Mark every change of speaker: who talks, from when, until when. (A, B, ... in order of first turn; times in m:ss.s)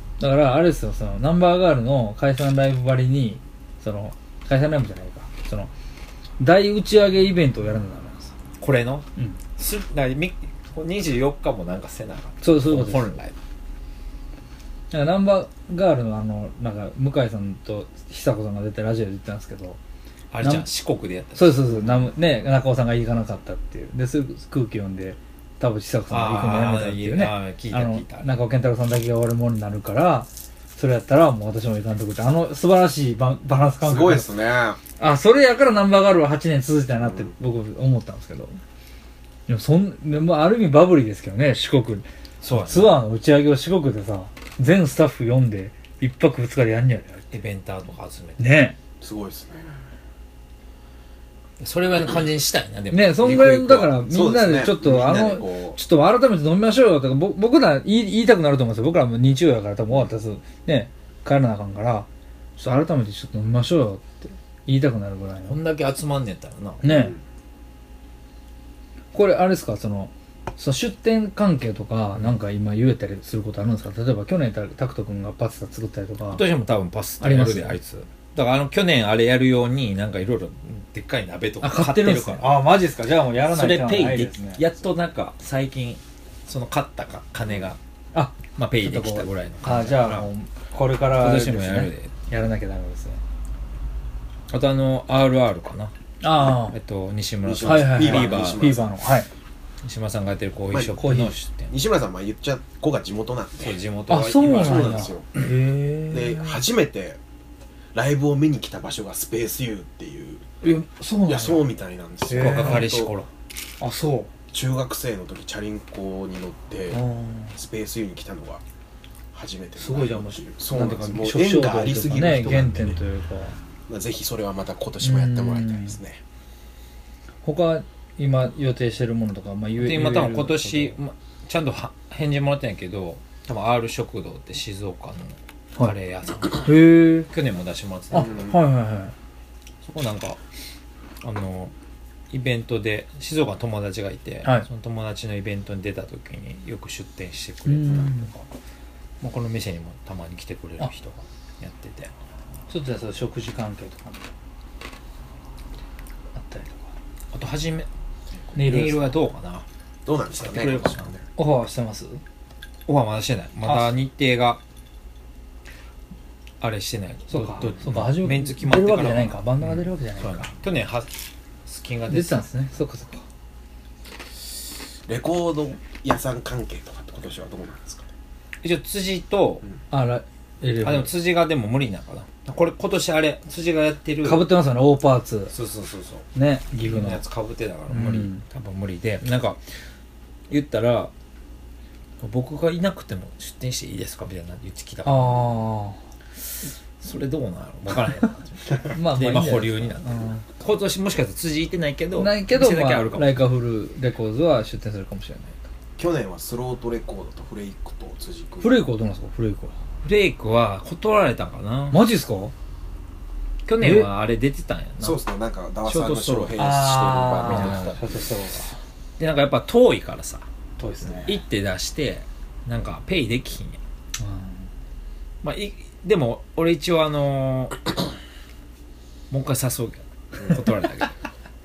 0:00.2-0:05.7 A
0:06.4-0:08.3 A
0:08.6-0:13.3 B
0:12.4-0:13.1 A
0:14.9-0:19.8 A
0:20.3-0:21.9 B
0:21.3-0:34.3 A
0:26.1-0:28.2 B
0:33.8-0:34.8 C
0:35.0-0:38.6 A
0:39.5-0:47.2 A
0:42.4-0:43.0 B
0:47.3-0:48.6 B
0:48.4-0:48.8 A
0:49.0-0:49.8 C
0:51.6-0:53.9 B
0:52.9-1:02.1 A
0:53.2-0:55.8 C
1:02.6-1:05.6 A
1:05.4-1:06.8 B
1:06.8-1:07.2 A
1:09.1-1:16.4 A
1:16.2-1:22.6 B
1:17.2-1:17.8 A
1:21.6-1:24.6 A
1:23.4-1:27.8 B
1:28.1-1:33.2 A
1:28.5-1:30.3 B
1:31.1-1:32.1 B
1:34.5-1:35.9 B
1:36.2-1:36.8 A
1:36.4-1:38.8 B
1:37.4-1:38.9 C
1:37.6-1:39.3 A
1:39.8-1:41.7 B
1:40.7-1:41.0 C
1:41.0-1:41.3 A
1:41.7-1:43.8 C
1:43.6-1:45.1 B
1:44.1-1:46.6 A
1:44.4-1:45.3 C
1:46.1-1:47.2 C
1:47.9-1:53.1 C
1:50.6-1:51.6 A
1:52.3-1:52.9 A
1:52.3-1:53.3 B
1:53.8-1:54.3 A
1:54.5-1:57.0 C
1:56.9-1:57.6 A
1:57.5-1:58.6 C
1:59.3-2:03.0 C
1:59.8-2:03.6 A
2:03.9-2:06.2 C
2:05.0-2:06.0 A
2:07.4-2:11.0 A
2:09.8-2:16.7 B
2:16.6-2:17.3 A
2:17.3-2:18.5 B
2:18.1-2:19.1 A
2:19.8-2:20.4 B
2:21.2-2:21.7 B
2:22.3-2:28.4 B
2:27.6-2:28.3 A
2:29.2-2:32.1 B
2:32.7-2:34.3 A
2:36.3-2:36.9 A
2:37.3-2:37.9 B
2:38.5-2:39.1 A
2:38.5-2:39.6 B
2:40.0-2:41.2 C
2:40.3-2:41.1 B
2:41.4-2:42.2 A
2:42.8-2:44.6 B
2:43.6-2:44.0 A
2:46.6-2:51.1 B
2:47.3-2:50.5 A
2:51.6-2:52.4 B
2:52.1-2:53.2 A
2:55.0-2:58.1 C
2:58.6-2:59.6 B
2:59.9-3:01.1 A
3:00.8-3:04.5 B
3:04.2-3:05.5 A
3:05.5-3:06.3 B
3:06.3-3:07.2 A
3:06.8-3:09.6 B
3:07.9-3:08.4 A
3:10.5-3:11.1 B
3:12.2-3:15.6 B
3:15.0-3:16.0 A
3:17.0-3:23.4 B
3:18.9-3:20.4 A
3:22.2-3:25.7 A
3:26.0-3:28.8 C
3:28.6-3:29.7 A
3:30.0-3:32.0 B
3:31.9-3:32.5 A
3:33.6-3:35.2 B
3:33.8-3:34.1 A
3:35.0-3:38.2 C
3:35.8-3:36.8 B
3:36.6-3:38.8 A
3:37.4-3:37.9 B
3:39.2-3:40.4 B
3:40.8-3:41.4 A
3:41.1-3:43.8 B
3:44.2-3:44.7 A
3:45.4-3:47.8 B
3:49.3-3:51.1 B